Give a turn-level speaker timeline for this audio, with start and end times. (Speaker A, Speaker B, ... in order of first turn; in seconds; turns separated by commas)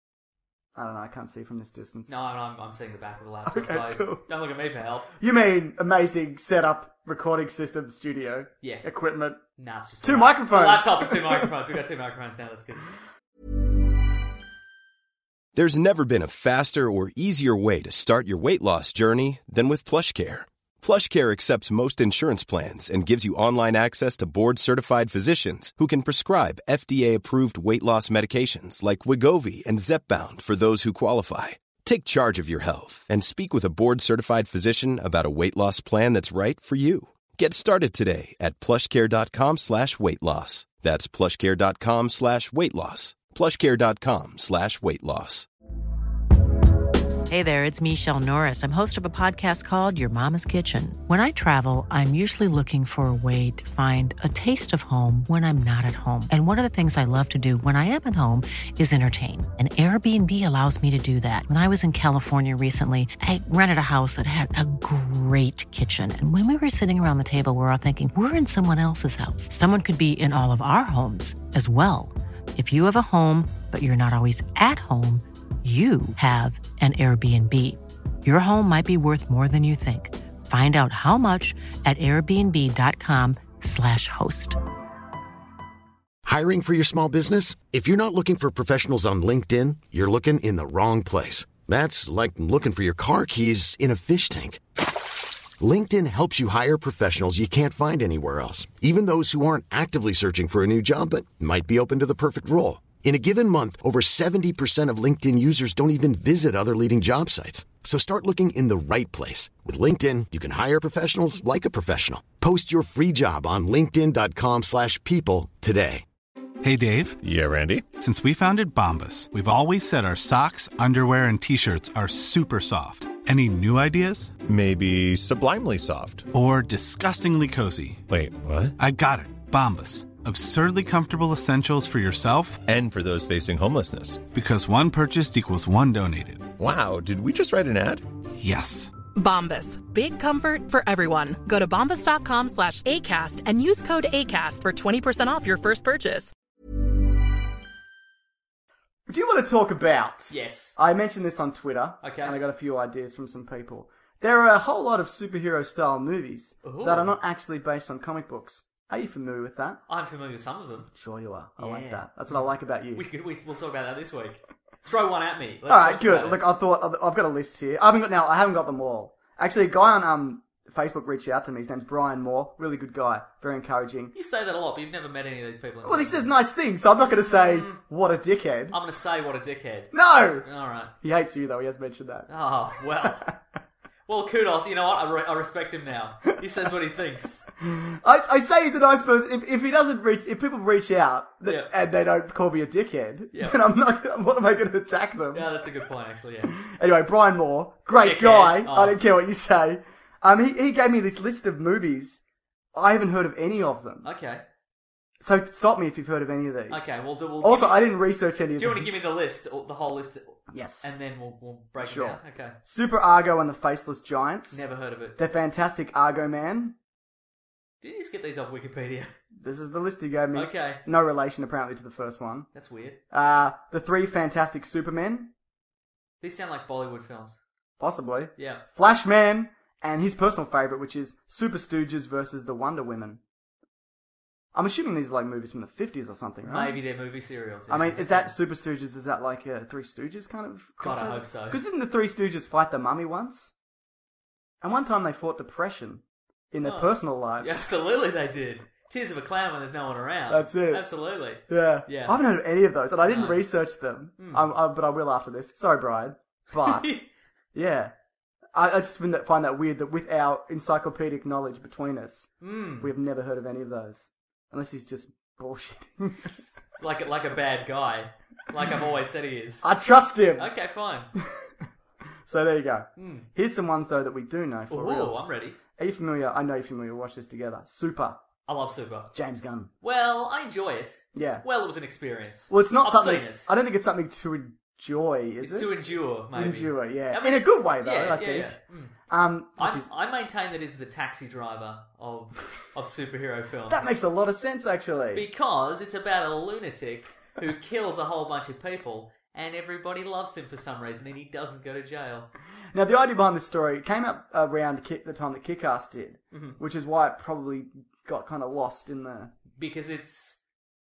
Speaker A: 0.7-2.1, Speaker B: 2.1-5.1, Speaker A: 3.5-4.3, Speaker A: 5.2-9.4, Speaker B: 9.6-12.8, Speaker A: 10.0-11.5, Speaker C: 15.5-45.5, Speaker D: 47.3-84.6, Speaker E: 86.2-94.6, Speaker E: 95.6-116.0, Speaker F: 116.6-117.2, Speaker G: 117.2-117.9, Speaker F: 117.9-124.4, Speaker G: 124.5-126.3, Speaker F: 126.3-128.0, Speaker G: 128.1-128.7, Speaker F: 128.8-132.6, Speaker G: 132.7-134.2, Speaker F: 134.3-136.5, Speaker G: 136.6-138.1, Speaker F: 138.3-138.9, Speaker H: 139.1-146.3, Speaker A: 149.1-159.8, Speaker B: 150.3-150.8, Speaker B: 152.0-152.4, Speaker B: 156.6-157.2, Speaker B: 159.9-160.9, Speaker A: 160.9-163.1, Speaker B: 161.6-166.4, Speaker A: 165.7-174.1, Speaker B: 174.1-176.3, Speaker A: 175.8-178.8, Speaker B: 177.2-177.8, Speaker B: 178.7-180.9, Speaker A: 179.9-180.4, Speaker A: 181.0-182.3, Speaker B: 182.3-183.3, Speaker A: 183.0-183.3, Speaker B: 184.1-187.5, Speaker A: 187.6-195.5, Speaker B: 191.4-191.7, Speaker B: 193.3-193.6, Speaker B: 195.3-196.5, Speaker A: 196.5-202.2, Speaker B: 198.0-199.0, Speaker A: 202.7-204.1, Speaker B: 204.0-204.4, Speaker A: 205.2-209.0, Speaker B: 206.7-207.9, Speaker B: 208.6-212.6, Speaker A: 210.5-210.9, Speaker A: 211.8-214.6, Speaker B: 214.5-215.2, Speaker A: 215.2-216.8, Speaker B: 217.8-219.1, Speaker A: 219.4-222.5, Speaker B: 220.3-220.8, Speaker B: 222.5-223.0, Speaker A: 223.1-225.3, Speaker B: 226.2-227.4, Speaker A: 227.8-233.2, Speaker B: 228.4-228.6, Speaker A: 234.5-236.8, Speaker B: 236.4-238.3, Speaker A: 237.7-243.5, Speaker B: 240.8-241.6, Speaker A: 244.6-247.7, Speaker B: 246.6-252.2, Speaker A: 250.3-250.8, Speaker A: 251.5-257.0, Speaker B: 253.1-253.4, Speaker B: 254.2-254.4, Speaker B: 256.5-257.1, Speaker A: 257.5-257.9, Speaker A: 258.5-266.4, Speaker B: 262.4-262.9, Speaker B: 266.8-269.7, Speaker A: 269.6-270.5, Speaker B: 270.4-271.1, Speaker A: 272.2-278.2, Speaker B: 273.0-273.3, Speaker B: 274.7-275.6, Speaker B: 278.4-279.1, Speaker A: 279.1-279.7, Speaker B: 279.8-283.5, Speaker A: 281.1-281.4, Speaker A: 282.5-285.7, Speaker B: 285.4-288.9, Speaker A: 286.3-289.9, Speaker B: 289.6-293.9, Speaker A: 293.7-295.2, Speaker B: 295.1-302.3, Speaker A: 302.7-309.3, Speaker B: 306.3-306.6, Speaker B: 309.6-310.4